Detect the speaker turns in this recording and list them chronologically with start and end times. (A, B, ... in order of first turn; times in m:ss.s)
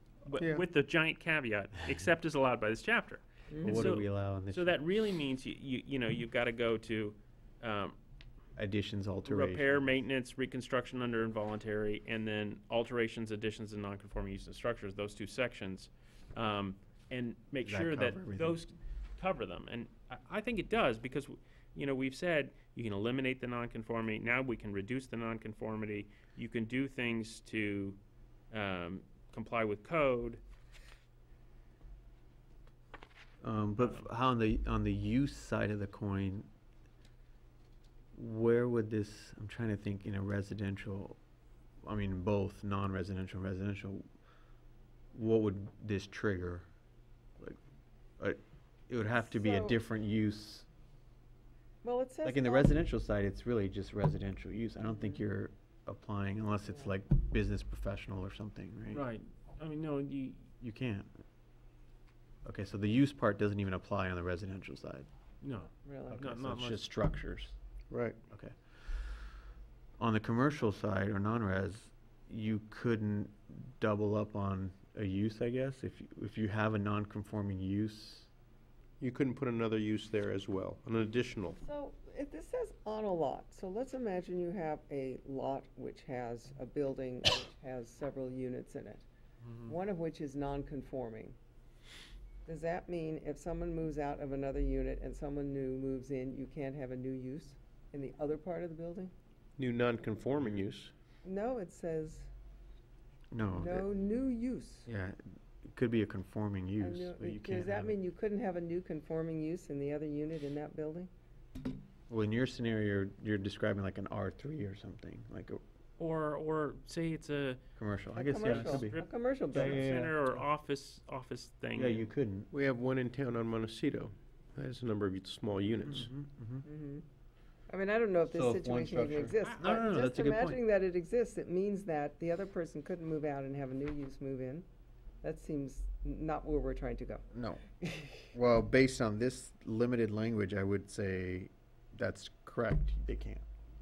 0:00.2-0:08.0 A
0:00.4-0:00.6 B
0:03.5-0:04.0 C
0:03.6-0:04.7 D
0:08.6-0:09.8 D
0:09.2-0:28.0 A
0:17.6-0:18.6 D
0:28.5-0:30.4 A
0:33.4-0:36.5 D
0:38.1-0:41.2 D
0:41.8-0:44.0 D
0:45.1-0:46.7 D
0:48.2-0:50.7 D
0:49.2-0:49.8 C
0:51.8-0:52.8 C
0:52.2-0:59.0 D
0:58.9-1:00.5 A
1:00.6-1:01.1 D
1:02.4-1:05.1 D
1:05.4-1:06.9 A
1:05.8-1:06.2 C
1:06.1-1:07.6 D
1:07.9-1:08.2 B
1:08.3-1:09.3 D
1:10.0-1:18.3 D
1:19.0-1:21.6 B
1:21.6-1:29.0 C
1:29.4-1:29.7 A
1:29.6-1:31.4 C
1:32.4-1:39.1 C
1:39.6-1:40.9 B
1:41.2-1:42.3 C
1:43.3-1:43.9 D
1:43.6-1:44.9 C
1:44.9-1:47.9 D
1:46.8-1:51.1 C
1:52.1-1:55.6 D
1:56.0-1:57.6 A
1:57.8-2:00.2 D
1:58.1-1:59.9 C
1:58.4-2:02.1 A
2:01.7-2:02.5 D
2:02.5-2:06.1 B
2:05.8-2:06.6 D
2:06.6-2:07.0 C
2:07.7-2:14.6 C
2:08.3-2:10.6 D
2:09.4-2:09.8 A
2:15.2-2:17.3 C
2:17.3-2:17.6 D
2:17.8-2:18.3 C
2:18.3-2:23.4 D